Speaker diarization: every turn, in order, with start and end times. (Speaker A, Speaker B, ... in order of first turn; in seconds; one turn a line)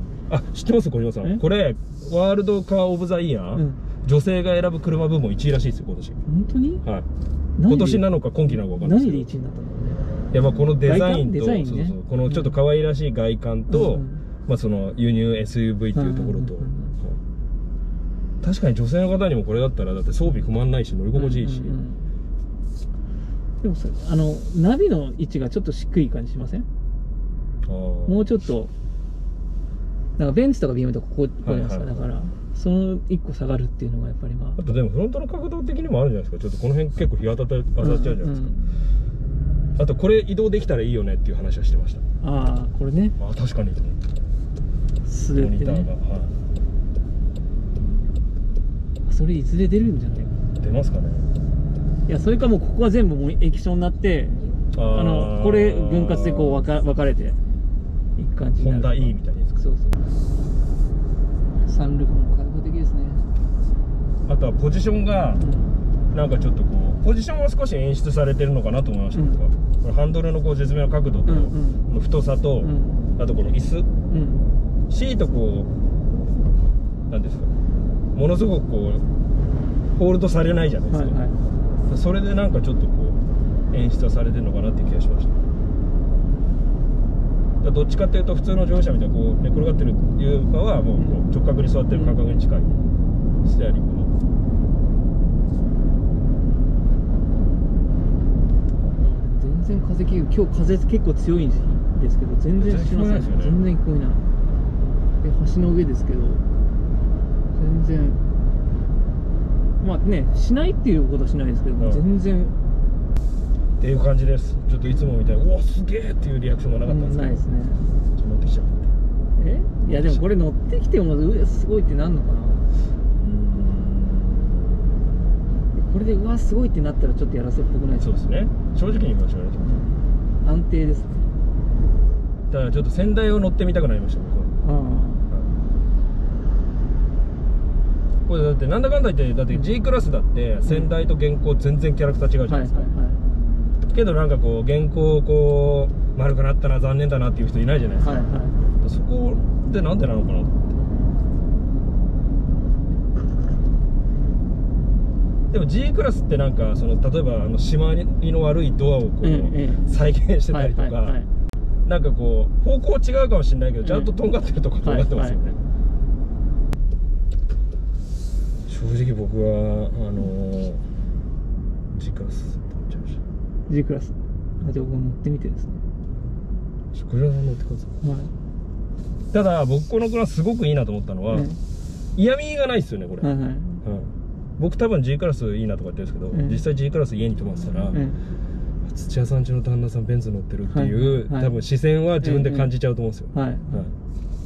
Speaker A: 0.3-6.2
Speaker B: 3.5-3.8
Speaker B: 6.3-6.8
Speaker B: 7.6-10.1
Speaker A: 7.7-9.3
Speaker A: 10.3-17.2
Speaker B: 10.8-12.6
Speaker B: 13.7-14.2
Speaker B: 15.9-16.9
Speaker A: 18.4-21.8
Speaker B: 21.1-22.1
Speaker B: 23.6-26.7
Speaker A: 27.6-28.4
Speaker B: 28.1-28.7
Speaker B: 30.2-34.6
Speaker A: 31.4-32.0
Speaker A: 34.6-38.5
Speaker B: 37.8-38.8
Speaker A: 39.8-42.0
Speaker B: 42.2-43.1
Speaker A: 43.2-44.0
Speaker B: 45.0-45.9
Speaker A: 45.3-46.4
Speaker B: 49.0-50.4
Speaker A: 50.6-51.3
Speaker B: 52.0-57.4
Speaker A: 54.7-56.6
Speaker B: 58.1-60.0
Speaker A: 58.6-59.6
Speaker B: 61.6-63.2
Speaker A: 64.3-65.4
Speaker B: 65.4-65.7
Speaker A: 66.1-73.9
Speaker B: 69.1-69.4
Speaker B: 71.2-71.8
Speaker B: 72.6-73.1
Speaker B: 74.1-74.5
Speaker A: 74.9-75.7
Speaker A: 77.1-77.5
Speaker A: 78.1-79.0
Speaker A: 80.0-81.2
Speaker B: 80.9-81.3
Speaker A: 81.9-83.2
Speaker A: 83.7-85.4
Speaker A: 87.6-92.7
Speaker B: 91.0-91.2
Speaker B: 91.9-93.0
Speaker A: 93.4-94.1
Speaker B: 98.9-104.3
Speaker A: 102.6-103.6
Speaker B: 105.2-106.4
Speaker B: 107.5-108.2
Speaker B: 109.8-112.5
Speaker A: 111.8-112.0
Speaker A: 113.8-117.4
Speaker B: 116.9-117.8
Speaker A: 118.1-118.9
Speaker B: 119.4-122.6
Speaker A: 119.9-120.2
Speaker A: 123.2-124.8
Speaker B: 125.7-128.1
Speaker A: 128.0-129.7
Speaker B: 129.6-131.3
Speaker A: 132.5-134.6
Speaker B: 134.6-135.3
Speaker A: 138.2-142.9
Speaker B: 142.5-143.2
Speaker A: 143.9-150.7
Speaker B: 148.0-148.6
Speaker A: 155.5-161.2
Speaker B: 159.2-159.9
Speaker B: 160.5-161.3
Speaker A: 161.8-165.6
Speaker B: 163.8-164.2
Speaker B: 164.8-165.4
Speaker A: 168.7-170.8
Speaker A: 171.9-173.2
Speaker B: 173.7-175.8
Speaker A: 176.9-178.0
Speaker B: 178.0-178.3
Speaker A: 179.3-181.5
Speaker B: 181.3-181.6
Speaker A: 182.2-183.3
Speaker B: 183.2-183.8
Speaker A: 183.8-188.0
Speaker B: 186.3-186.6
Speaker B: 187.8-188.2
Speaker A: 188.8-193.9
Speaker B: 190.7-191.5
Speaker B: 192.2-192.7
Speaker B: 193.3-193.9